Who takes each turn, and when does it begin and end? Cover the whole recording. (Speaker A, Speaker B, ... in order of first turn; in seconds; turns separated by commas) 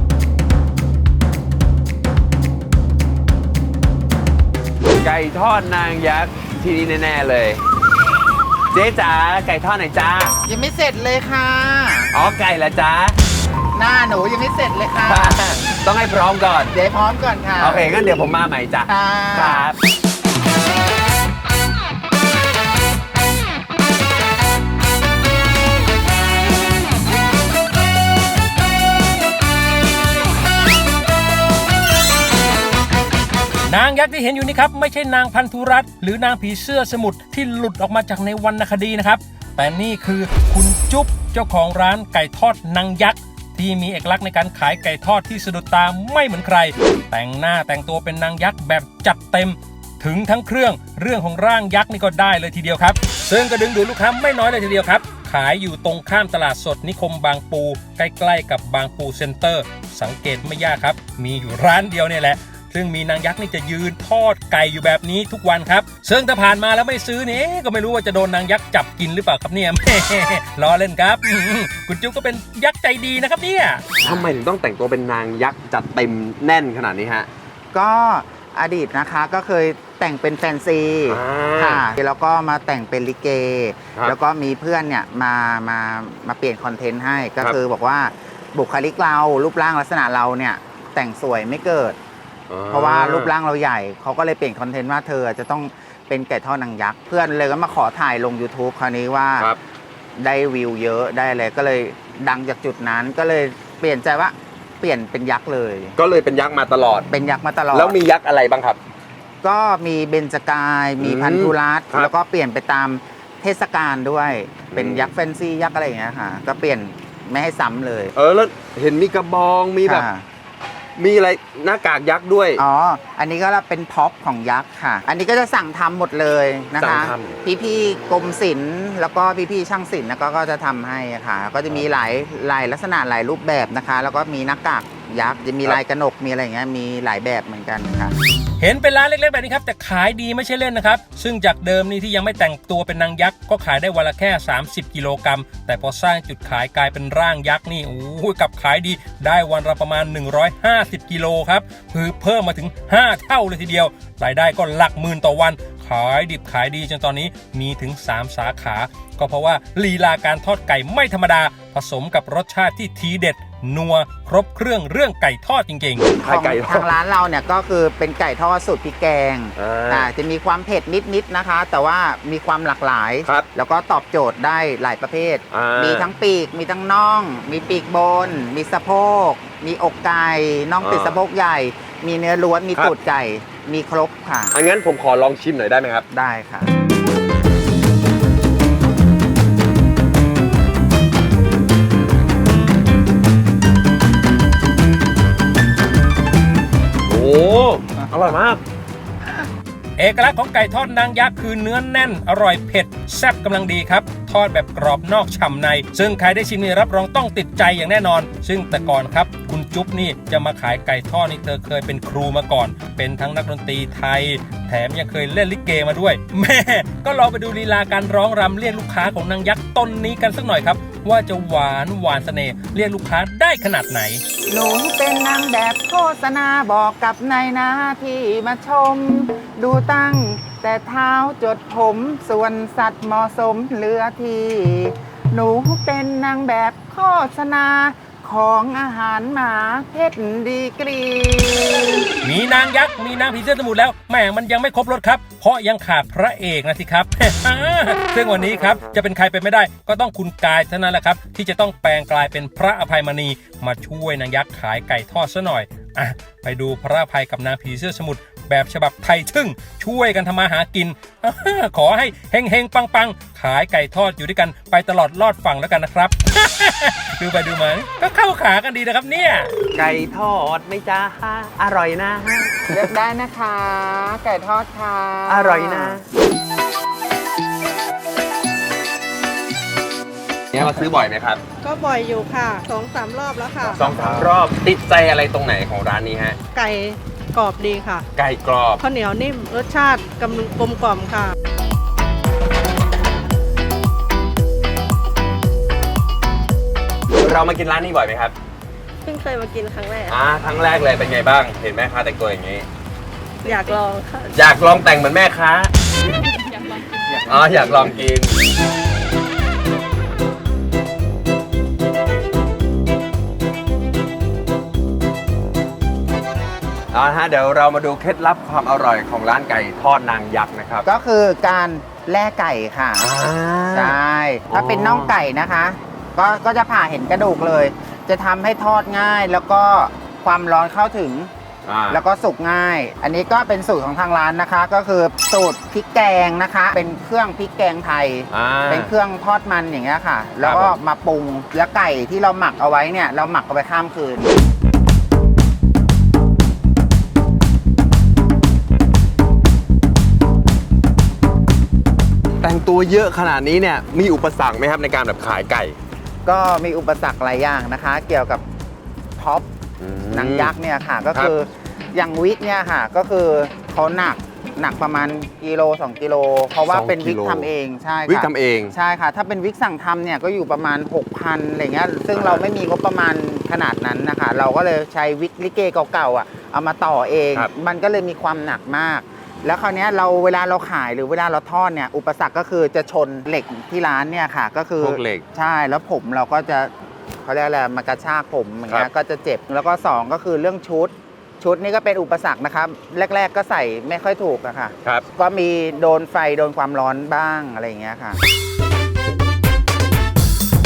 Speaker A: 4.9-7.6, Speaker A: 8.7-10.4, Speaker B: 10.4-12.1, Speaker A: 12.1-13.2, Speaker B: 13.7-15.5, Speaker A: 15.0-16.8, Speaker B: 16.7-17.9, Speaker A: 17.6-19.8, Speaker B: 18.9-19.7, Speaker C: 33.7-73.9, Speaker A: 74.0-77.3, Speaker B: 77.7-92.0, Speaker A: 81.1-81.9, Speaker A: 92.5-93.3, Speaker B: 92.7-99.5, Speaker B: 100.2-106.0, Speaker A: 106.0-107.1, Speaker B: 107.1-108.0, Speaker A: 107.7-108.8, Speaker B: 109.4-118.1, Speaker A: 111.0-112.1, Speaker A: 114.7-115.1, Speaker A: 118.1-120.1, Speaker B: 119.8-120.2, Speaker A: 121.0-122.6, Speaker B: 122.6-138.1, Speaker A: 126.8-127.4, Speaker C: 138.6-166.1, Speaker A: 166.1-166.9, Speaker B: 166.2-184.5, Speaker A: 169.6-170.1, Speaker A: 175.5-176.1, Speaker A: 180.8-181.2, Speaker A: 184.5-186.1, Speaker B: 186.1-186.7, Speaker A: 197.1-198.6, Speaker C: 200.0-224.2, Speaker B: 224.5-242.1, Speaker C: 242.2-269.5, Speaker A: 269.7-272.9, Speaker B: 272.7-276.0, Speaker A: 275.3-276.1, Speaker A: 280.5-281.4, Speaker D: 281.6-283.9, Speaker A: 283.6-286.4, Speaker D: 286.5-288.1, Speaker A: 288.1-288.8, Speaker D: 288.8-291.4, Speaker A: 297.2-298.4, Speaker E: 299.0-300.2, Speaker A: 300.1-302.7, Speaker E: 303.4-304.4, Speaker A: 304.3-305.7, Speaker A: 307.2-308.4, Speaker A: 316.9-320.9, Speaker B: 320.9-323.1, Speaker A: 323.0-324.0, Speaker B: 323.7-331.3, Speaker A: 324.5-325.2, Speaker A: 331.7-332.0, Speaker B: 331.9-344.3, Speaker A: 338.3-338.9, Speaker A: 340.4-340.8, Speaker A: 352.4-355.8, Speaker B: 356.2-358.4, Speaker B: 359.2-359.5, Speaker A: 359.8-360.6, Speaker B: 360.1-386.7, Speaker A: 366.7-367.5, Speaker A: 368.1-368.8, Speaker A: 372.1-372.5, Speaker A: 384.8-385.2, Speaker B: 387.2-398.2